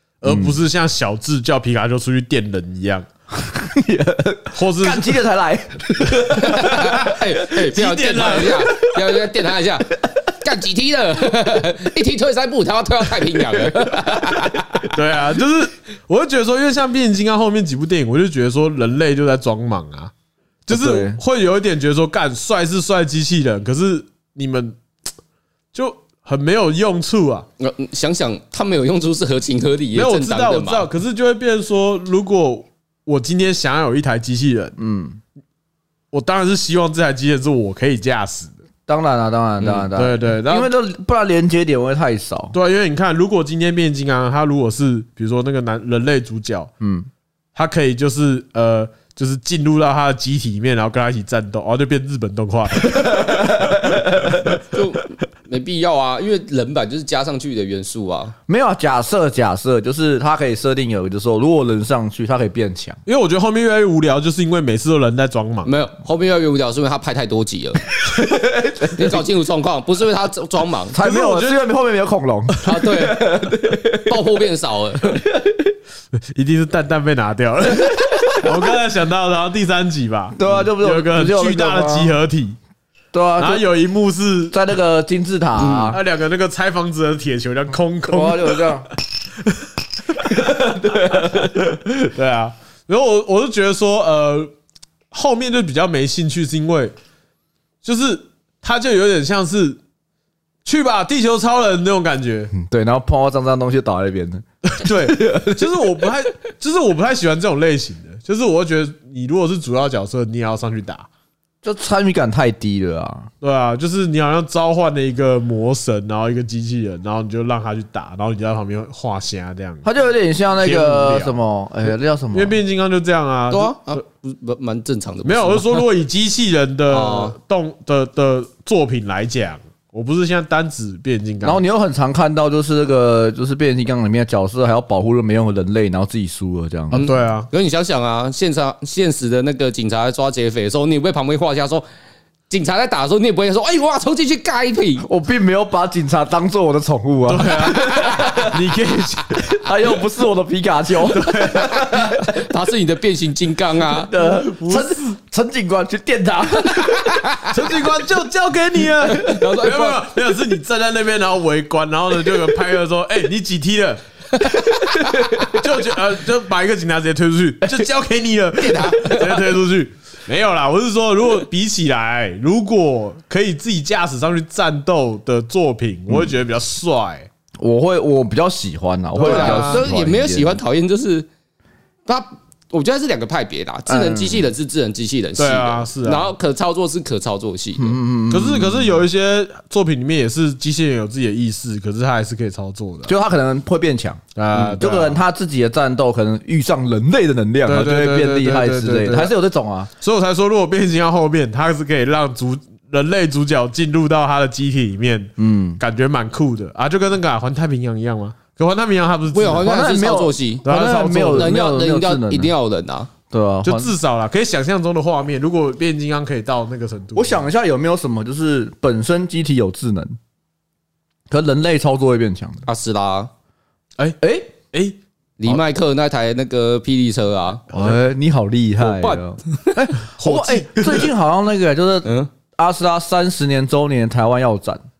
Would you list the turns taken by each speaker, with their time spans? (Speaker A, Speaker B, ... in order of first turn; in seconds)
Speaker A: 0.2-3.0, 4.5-5.2, 6.6-8.7, 14.9-20.1, 20.7-24.8, 25.7-27.5, 29.9-34.7, 36.1-38.5, 39.9-40.7, 42.5-46.7, 47.5-54.1, 63.0-65.7, 71.0-71.7, 76.2-82.6, 83.4-84.6, 85.9-88.8, 90.7-94.5, 95.1-96.9, 97.8-99.8, 100.6-102.5, 104.6-111.1, 113.4-119.9, 120.6-121.4, 122.3-124.0, 125.2-131.6, 136.9-137.5, 147.3-149.7, 151.0-151.9, 154.2-155.1, 157.4-164.0, 165.4-177.3, 179.1-179.9, 185.4-186.3, 188.3-193.1, 194.3-195.2, 197.7-199.3, 200.0-209.7, 210.6-211.5, 213.6-217.5, 224.0-225.6, 227.7-228.0, 230.1-231.1
Speaker B: 0.2-0.6, 3.3-7.2, 13.9-14.8, 20.7-21.2, 34.8-35.2, 38.9-42.5, 46.8-47.1, 52.8-54.6, 58.5-63.0, 68.0-69.2, 70.9-74.2, 75.1-75.7, 80.4-82.2, 83.1-83.7, 84.5-86.0, 88.0-88.9, 90.2-91.8, 102.5-106.1, 111.6-113.3, 119.8-122.6, 131.4-137.0, 145.0-148.6, 149.5-152.3, 153.8-157.3, 165.0-165.7, 177.6-180.6, 183.9-184.5, 187.8-189.0, 193.1-199.9, 205.4-205.8, 209.5-212.5, 213.3-213.9, 217.1-220.2, 221.3-222.6, 224.2-224.5, 227.7-234.8
Speaker C: 6.3-14.9, 27.6-30.9, 39.6-39.9, 54.7-58.3, 65.6-67.8, 68.8-71.0, 72.6-75.2, 85.6-86.0, 123.5-125.9, 126.9-127.3, 136.9-141.8, 142.5-145.1, 151.6-154.1, 156.8-157.5, 159.1-160.0, 164.3-165.3, 168.6-169.4, 179.2-181.3, 182.1-188.0, 209.3-210.7, 211.3-213.1, 222.7-223.3, 225.4-227.7, 228.8-229.7, 232.0-232.3